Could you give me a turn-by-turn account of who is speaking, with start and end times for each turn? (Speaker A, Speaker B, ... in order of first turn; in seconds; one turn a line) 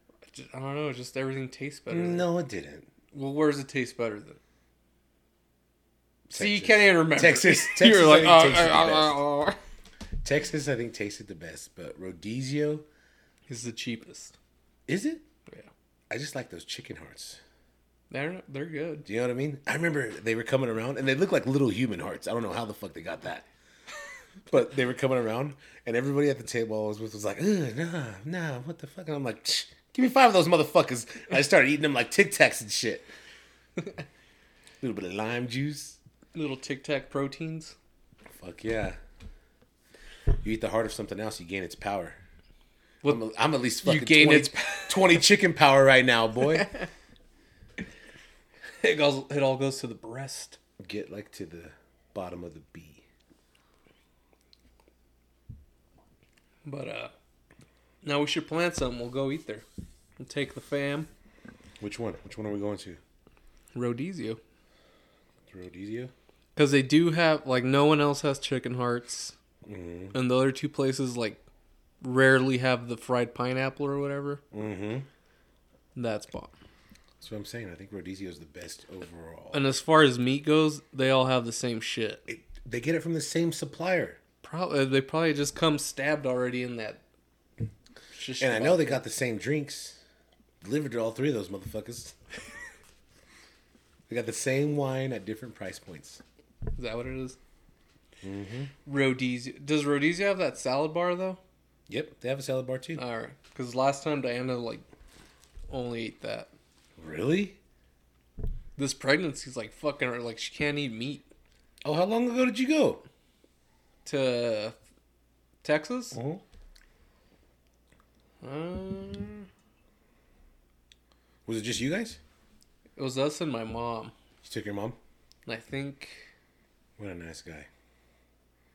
Speaker A: 0.3-2.3
Speaker B: 1.9-2.9
Speaker A: 3.1-4.4
Speaker B: 6.3-9.2
Speaker A: 6.3-9.6
Speaker B: 10.2-12.8
Speaker A: 13.5-14.3
Speaker B: 14.9-15.2
Speaker B: 16.1-17.4
Speaker A: 18.1-19.1
Speaker B: 19.0-23.4
Speaker B: 24.5-33.1
Speaker B: 34.8-36.0
Speaker A: 36.3-37.7
Speaker B: 38.3-39.0
Speaker B: 40.3-42.2
Speaker B: 43.0-46.7
Speaker A: 43.8-45.2
Speaker A: 46.5-46.9
Speaker A: 48.8-50.6
Speaker B: 50.8-53.0
Speaker A: 56.6-57.1
Speaker A: 58.0-59.6
Speaker A: 60.2-61.1
Speaker B: 61.8-63.0
Speaker A: 63.7-64.4
Speaker B: 65.5-66.1
Speaker A: 66.5-69.3
Speaker B: 69.6-70.2
Speaker A: 70.1-71.4
Speaker A: 72.0-74.4
Speaker B: 74.5-75.1
Speaker A: 75.9-76.5
Speaker B: 77.2-79.6
Speaker A: 79.5-82.2
Speaker B: 82.3-84.2
Speaker A: 84.4-87.0
Speaker A: 88.1-89.0
Speaker B: 88.4-90.0
Speaker B: 90.6-92.2
Speaker B: 94.1-96.2
Speaker A: 96.7-97.4
Speaker B: 98.2-98.7
Speaker A: 98.8-101.4
Speaker B: 101.9-103.0
Speaker A: 103.0-104.8
Speaker A: 105.7-106.5
Speaker B: 107.0-107.6
Speaker A: 108.8-111.3
Speaker B: 111.8-113.0
Speaker A: 114.0-114.8
Speaker A: 115.6-116.2
Speaker B: 116.1-116.4
Speaker A: 118.4-119.5
Speaker B: 121.5-122.2
Speaker A: 123.0-124.1
Speaker B: 124.4-125.0
Speaker A: 125.5-126.2
Speaker B: 127.0-127.7